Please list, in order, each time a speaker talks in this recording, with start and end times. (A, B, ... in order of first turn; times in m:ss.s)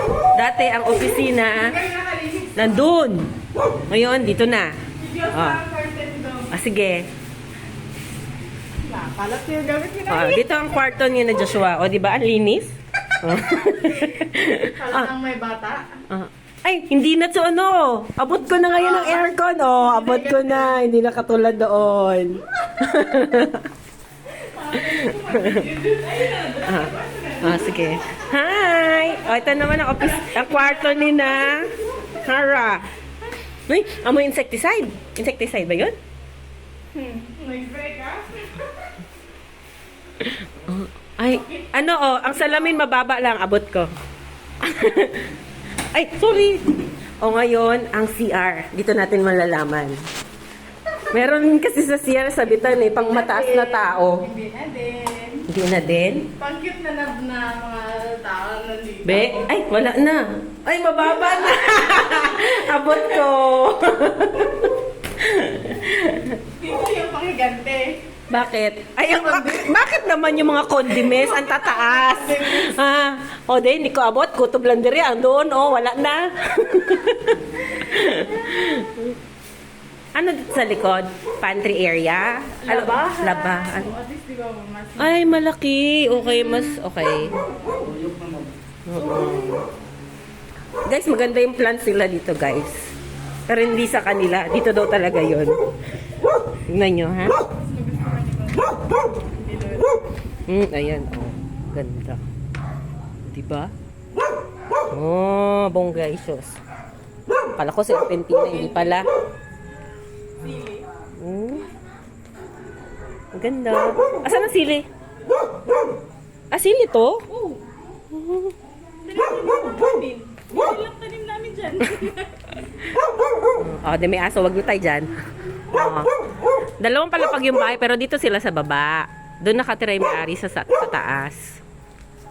0:00.3-0:01.8 A
0:01.5-0:02.7 B
0:02.6-0:03.3 A
0:03.9-0:04.7 A
0:05.0-0:06.5 B
0:05.3-0:05.6 A
0:06.5-0:07.1 A
0:08.8-0:10.4 B
0:10.1-0:15.1 A
0:14.8-0:16.0 B
0:16.1-0:23.7 A
0:18.8-0:20.8 B
0:24.4-0:28.1 B
0:24.7-0:25.7 A
0:26.5-0:32.9 A
0:30.0-0:32.2 B
0:33.7-0:36.0 A
0:36.9-0:38.7 B
0:40.2-0:43.9 A
0:41.3-0:42.8 B
0:44.6-0:45.3 A
0:45.9-0:46.6 A
0:47.2-0:50.0 A
0:51.1-0:54.3 A
0:52.8-0:55.5 B
0:55.5-0:56.3 A
0:56.4-0:59.5 B
0:59.0-1:06.4 A
1:01.2-1:03.3 B
1:04.4-1:04.7 B
1:06.5-1:08.0 B
1:08.3-1:19.2 A
1:10.8-1:12.8 B
1:20.2-1:23.9 A
1:22.6-1:25.3 B
1:25.0-1:27.4 A
1:26.2-1:26.8 B
1:27.4-1:28.2 B
1:28.9-1:29.7 A
1:30.9-1:32.9 A
1:33.5-1:35.6 A
1:36.7-1:37.4 A
1:37.5-1:40.0 B
1:40.5-1:42.2 A
1:43.3-1:43.7 A
1:44.9-1:46.6 A
1:47.6-1:49.1 A
1:48.4-1:49.1 B
1:50.4-1:50.9 B
1:51.2-1:51.7 A
1:53.3-1:54.9 A
1:56.5-1:57.3 A
1:57.3-1:57.7 B
1:58.1-1:58.6 A
1:59.0-2:02.4 B
2:03.6-2:05.1 A
2:05.7-2:06.1 A
2:06.8-2:11.6 A